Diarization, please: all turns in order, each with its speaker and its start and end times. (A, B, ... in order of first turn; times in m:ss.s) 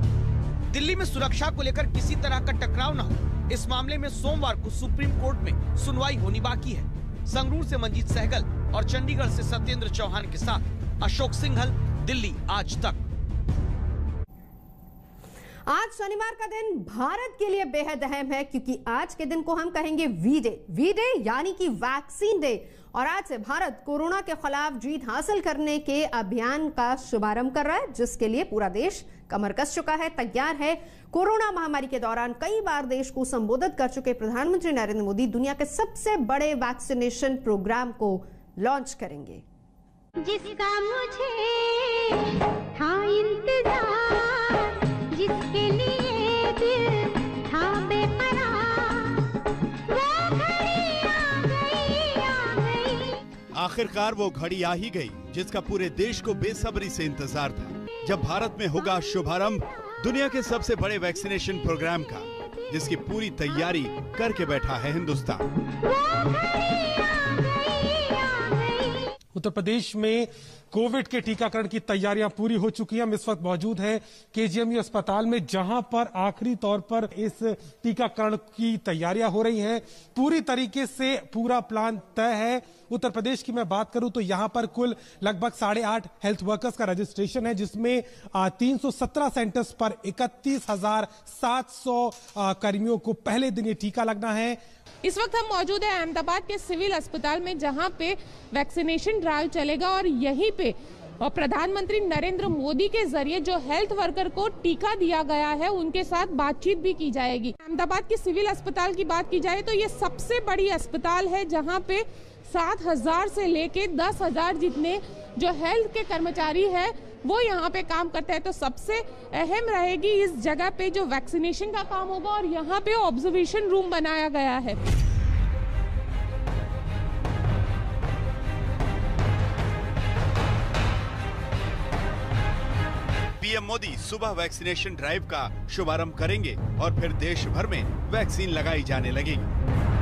0:00.7-0:13.0 A
0:15.7-0:39.4 B
0:40.2-0:49.2 C
0:49.9-0:53.2 C
0:53.5-1:05.4 D
1:05.8-1:09.1 C
1:09.3-1:34.6 E
1:35.0-2:04.8 F
2:13.4-2:19.5 D